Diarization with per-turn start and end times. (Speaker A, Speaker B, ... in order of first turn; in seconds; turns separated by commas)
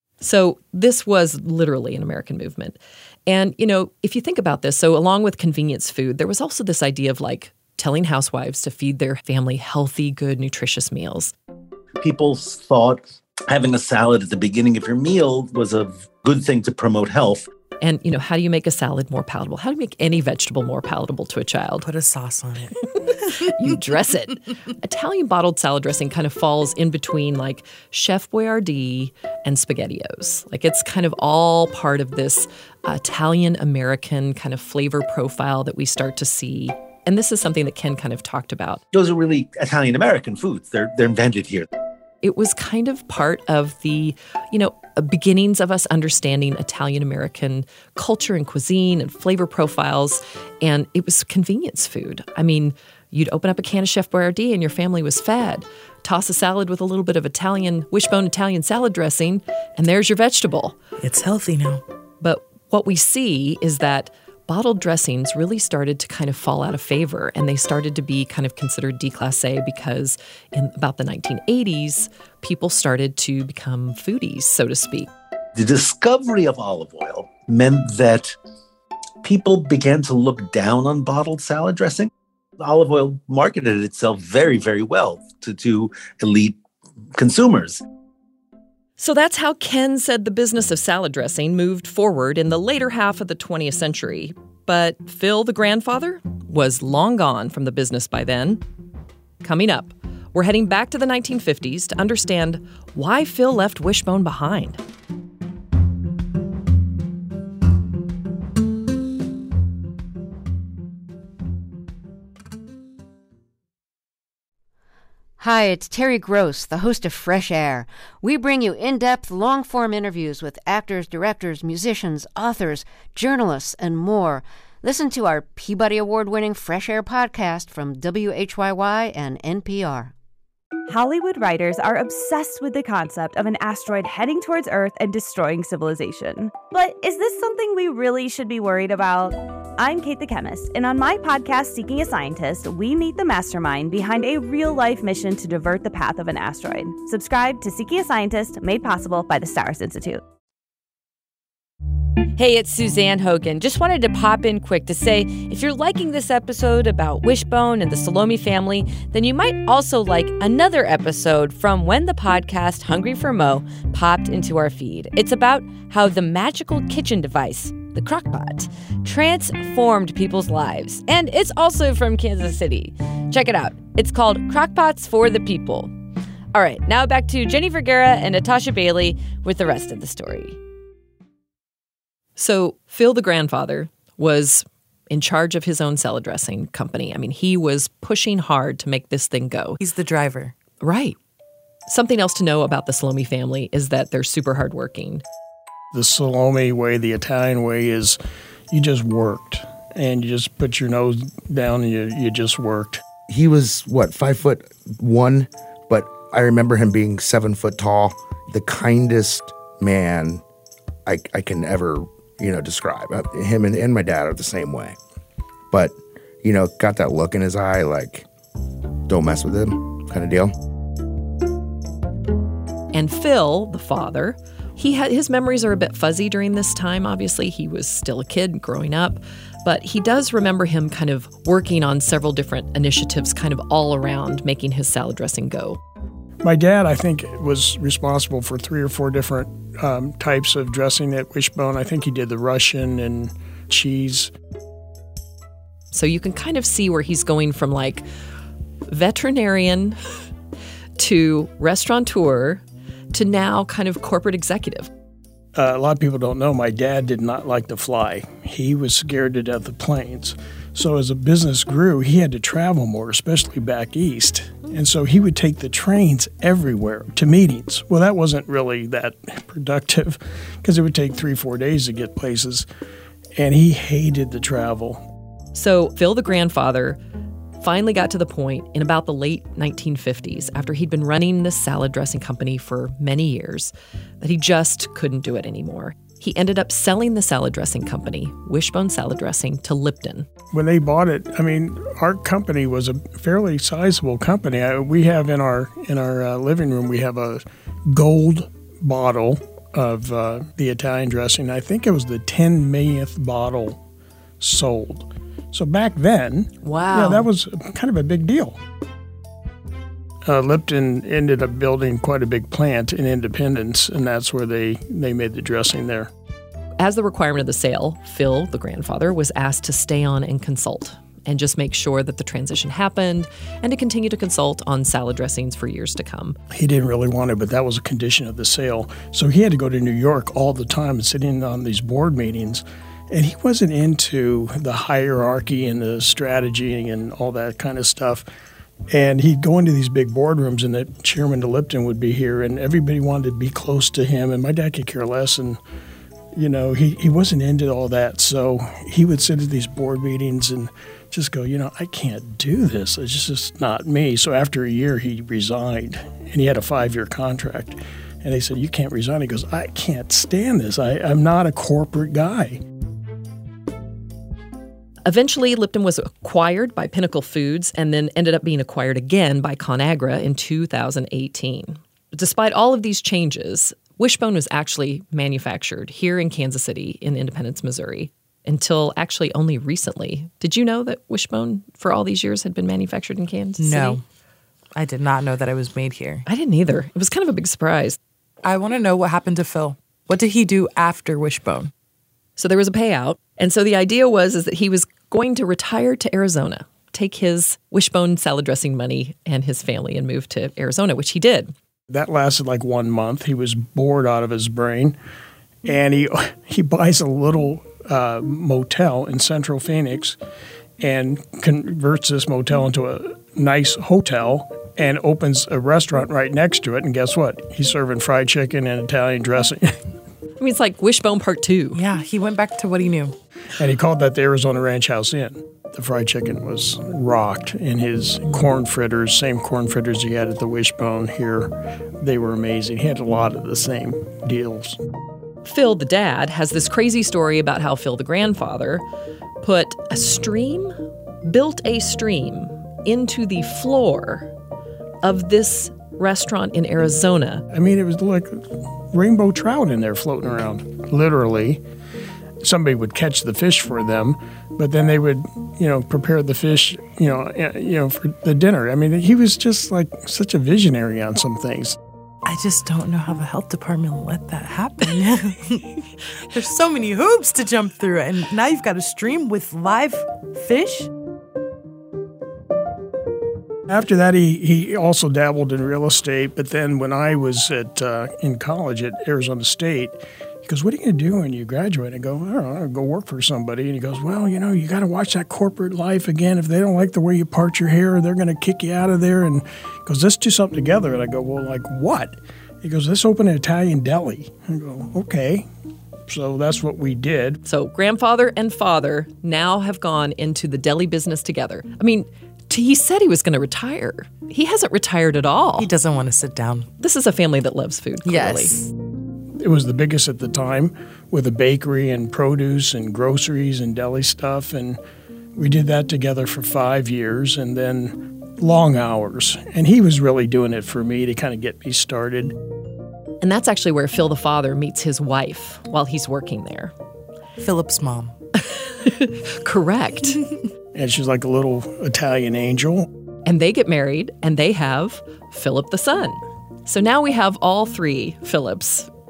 Speaker A: 0.2-11.3, Speaker B: 12.0-17.4, Speaker A: 17.8-21.9, Speaker C: 21.8-22.7, Speaker C: 23.2-23.7, Speaker A: 23.3-38.8, Speaker B: 38.9-41.7, Speaker A: 42.2-60.8, Speaker C: 61.0-61.8, Speaker A: 62.2-75.1, Speaker B: 75.5-78.3, Speaker B: 79.2-86.5, Speaker B: 87.2-87.8, Speaker A: 89.0-98.6, Speaker A: 99.4-104.8, Speaker D: 115.4-130.1, Speaker E: 130.9-150.2, Speaker F: 152.4-175.9, Speaker F: 176.5-180.6, Speaker A: 182.4-189.8, Speaker C: 189.8-190.5, Speaker A: 190.8-191.2, Speaker A: 191.9-195.2, Speaker G: 195.9-198.2, Speaker G: 198.7-203.0, Speaker H: 203.3-210.4, Speaker H: 211.1-214.9, Speaker H: 215.7-218.2, Speaker H: 219.1-220.5, Speaker A: 222.9-235.8, Speaker G: 236.4-244.3, Speaker A: 245.9-248.0, Speaker A: 248.9-250.0, Speaker A: 251.0-254.9, Speaker G: 255.6-272.6, Speaker G: 273.4-275.0, Speaker A: 275.5-277.0, Speaker A: 277.6-290.3, Speaker G: 290.5-303.8, Speaker G: 304.4-308.6, Speaker A: 306.6-307.3, Speaker G: 310.3-316.1, Speaker A: 316.8-326.4, Speaker G: 326.5-338.2, Speaker G: 338.9-345.6, Speaker G: 346.4-362.6, Speaker A: 365.1-384.0, Speaker C: 383.6-384.0, Speaker C: 384.8-386.2, Speaker A: 386.2-388.0, Speaker C: 388.4-391.7, Speaker A: 392.4-401.5, Speaker G: 401.9-404.9, Speaker G: 405.6-410.1, Speaker G: 410.8-419.7, Speaker A: 420.4-421.8, Speaker C: 421.7-423.1, Speaker G: 423.6-434.8, Speaker A: 435.4-438.8, Speaker A: 439.4-444.3, Speaker A: 445.0-447.4, Speaker G: 447.5-451.6, Speaker G: 452.4-461.8, Speaker C: 462.2-470.9, Speaker G: 473.7-495.4, Speaker G: 496.1-497.4, Speaker A: 497.4-505.7, Speaker C: 505.6-506.7, Speaker A: 506.8-508.6, Speaker C: 508.0-508.7, Speaker G: 509.4-514.8, Speaker G: 515.4-522.3, Speaker A: 523.2-526.7, Speaker C: 527.4-528.1, Speaker A: 528.4-530.2, Speaker G: 530.7-532.9, Speaker A: 533.2-538.9